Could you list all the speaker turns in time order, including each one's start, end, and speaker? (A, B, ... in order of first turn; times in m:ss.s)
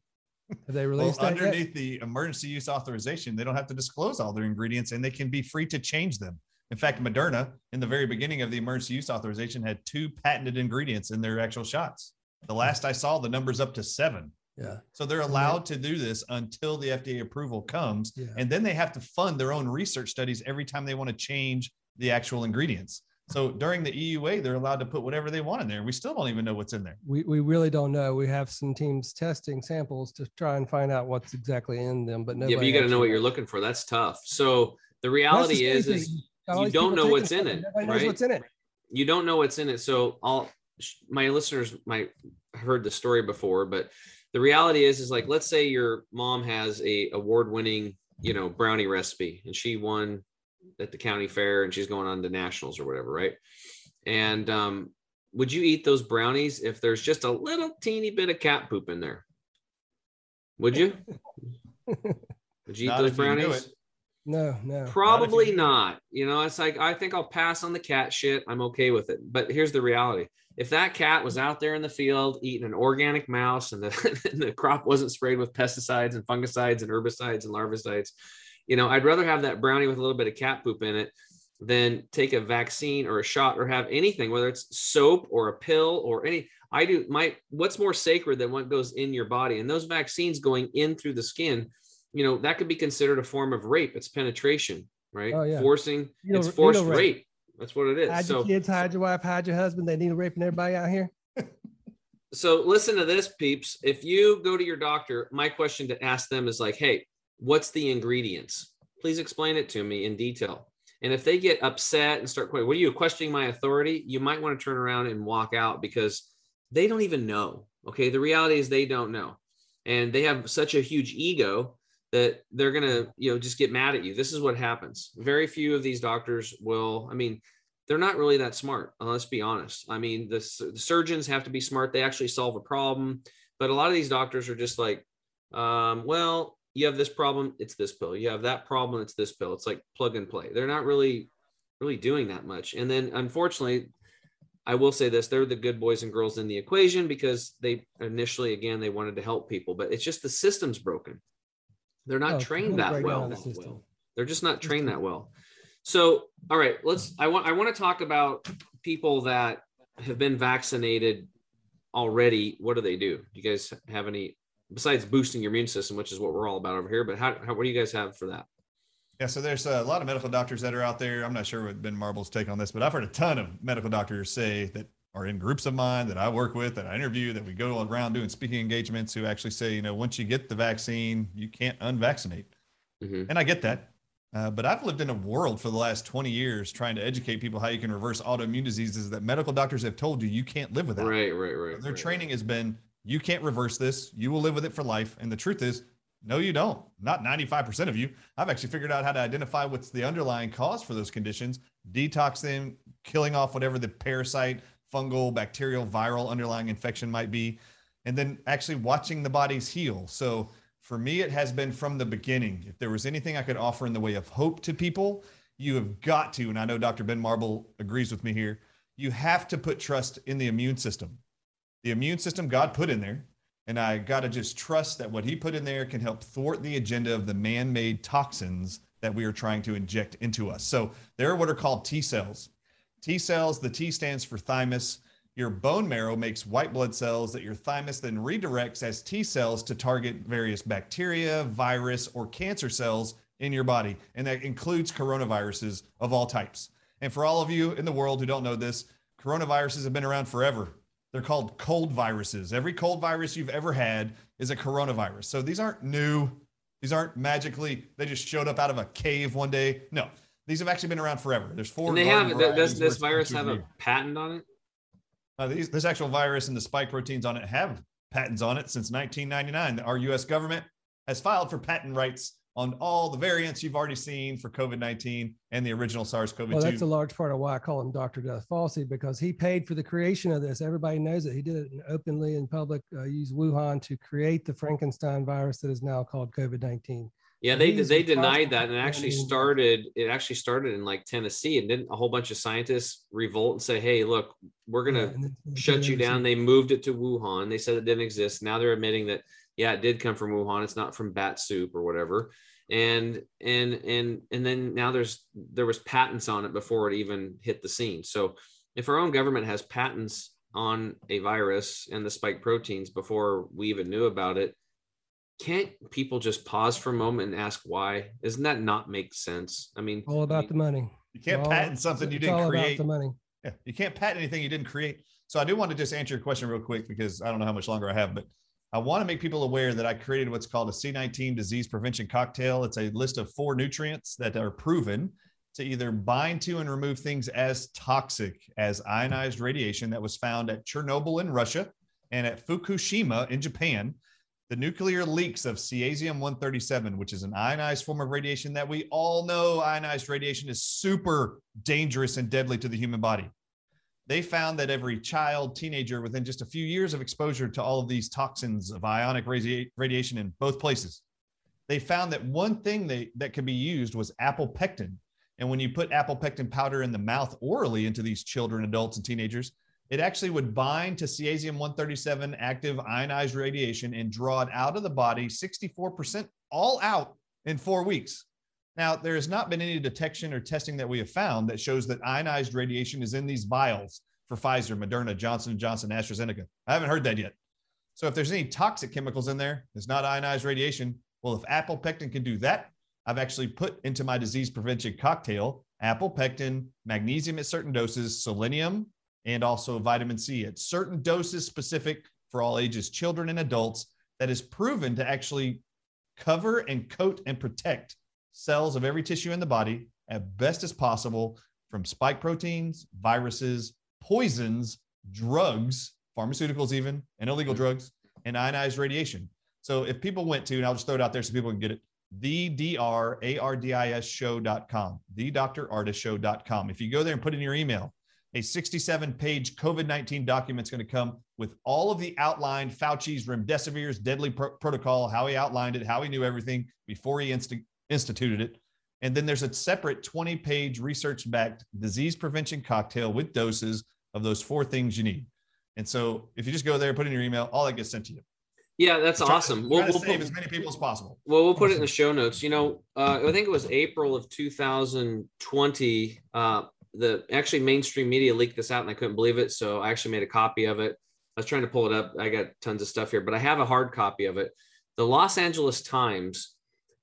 0:00.7-0:01.6 A
0:01.0-0:27.0 B
0:14.6-0:15.6 A
0:27.0-0:33.2 A
0:32.4-0:38.2 C
0:35.3-0:38.4 A
0:38.9-0:50.2 C
0:50.8-0:53.4 C
0:54.1-0:59.2 C
1:00.6-1:01.0 C
1:01.9-1:02.1 A
1:02.7-1:03.7 C
1:02.8-1:03.7 B
1:04.3-1:05.0 A
1:04.9-1:18.1 C
1:05.0-1:05.7 B
1:18.7-1:38.5 C
1:35.3-1:35.7 A
1:36.2-1:37.1 A
1:38.1-1:41.1 A
1:42.3-2:23.9 C
2:24.7-2:31.2 C
2:32.1-2:35.3 C
2:32.3-2:33.8 A
2:34.7-2:34.9 A
2:35.8-2:41.3 C
2:41.9-2:48.5 C
2:49.2-3:02.5 B
3:03.0-3:03.3 C
3:03.3-3:11.2 B
3:11.0-3:12.1 C
3:11.7-3:41.2 B
3:41.8-3:52.5 B
3:53.0-4:23.7 B
4:21.9-4:24.4 C
4:25.4-4:36.8 B
4:36.5-4:49.4 A
4:47.4-5:14.6 C
4:54.9-4:56.2 A
5:15.4-5:20.5 C
5:20.1-5:23.2 A
5:21.1-5:22.9 B
5:23.4-5:44.0 B
5:44.5-5:53.3 B
5:54.1-6:01.0 B
6:01.7-6:18.2 B
6:18.8-6:27.4 B
6:28.0-6:45.6 B
6:46.2-7:28.2 B
7:28.8-7:30.3 C
7:29.2-7:31.2 B
7:31.3-7:46.5 C